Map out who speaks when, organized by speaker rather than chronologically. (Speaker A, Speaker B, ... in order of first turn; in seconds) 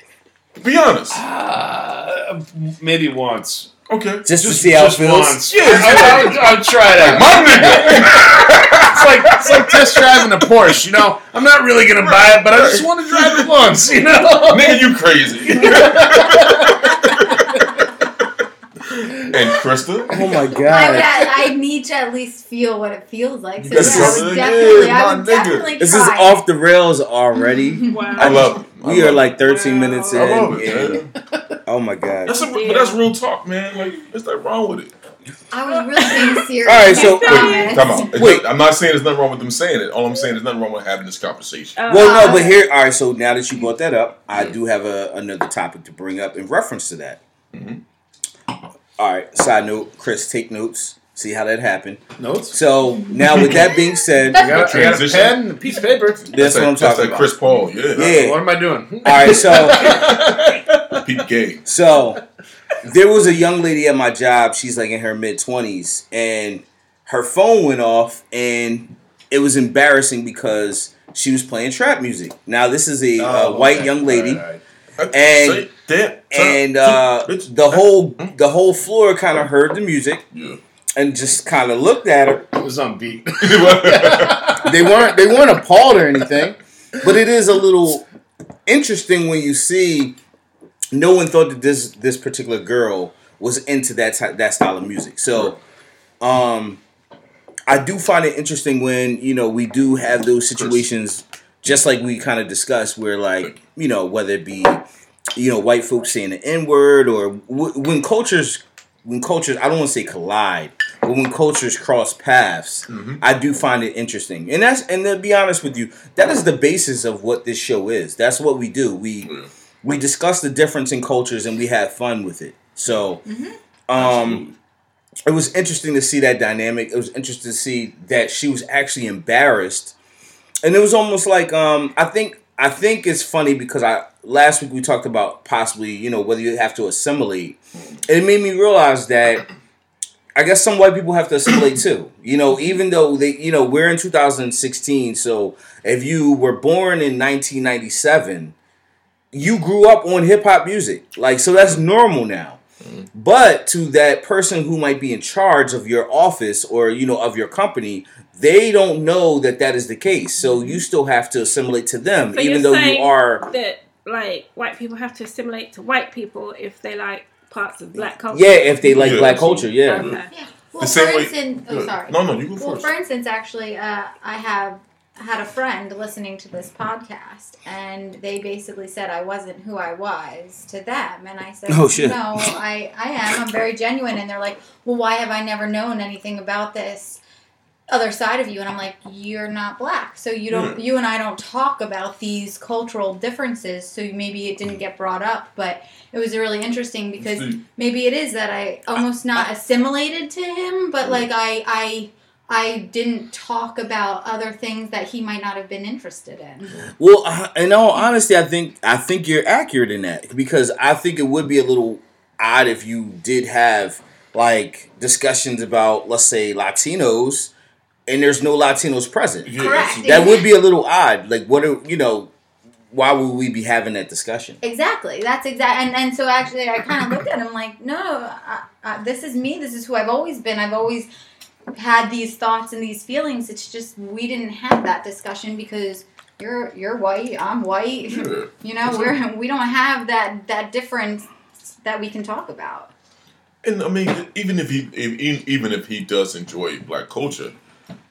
Speaker A: 0.6-1.2, 3.9-4.3, 5.5-10.3, 12.0-13.7, 14.4-17.4, 19.3-20.2, 23.6-25.8, 28.2-29.4, 30.1-31.1, 32.2-34.9, 37.2-41.8, 47.5-47.8, 53.4-53.7, 54.5-55.5, 56.2-58.2, 59.8-60.4, 61.0-61.7, 75.0-78.3, 80.3-80.6, 83.4-84.6, 100.6-100.8, 112.9-113.2, 119.2-119.5, 123.9-124.5, 168.8-170.2, 170.8-172.9, 190.5-190.8, 197.2-197.6, 219.4-220.4, 238.1-239.1, 243.6-247.5
Speaker B: 1.1-3.7, 4.3-17.8, 19.0-19.6, 52.2-52.6, 54.3-56.3, 57.9-61.1, 73.2-74.6, 82.5-85.0
Speaker C: 4.2-5.5, 20.1-21.2, 23.7-24.4, 25.8-31.0, 31.6-32.4, 36.6-38.5, 41.9-47.2, 49.0-55.1, 56.3-58.4, 59.0-60.0, 61.6-62.2, 62.8-74.4, 75.1-75.7, 76.3-80.2, 81.0-82.5, 84.6-88.0, 88.7-90.2, 90.9-95.6, 96.2-96.8, 97.7-104.8, 105.3-119.3, 119.8-123.2, 123.9-124.4, 125.2-129.9, 130.6-139.4, 140.3-148.5, 149.3-152.6, 153.1-163.4, 168.3-170.1, 181.7-182.4, 207.0-217.5, 218.1-222.3, 222.9-224.6
Speaker D: 20.6-26.4, 27.5-28.5, 35.5-38.1, 41.9-42.6, 123.2-123.5, 170.3-187.2, 187.9-206.7, 219.6-220.5, 224.6-231.1, 231.7-242.9
Speaker E: 27.9-28.6, 29.4-30.5, 32.3-33.0, 36.8-38.0, 41.8-42.5, 162.3-169.0, 169.8-170.3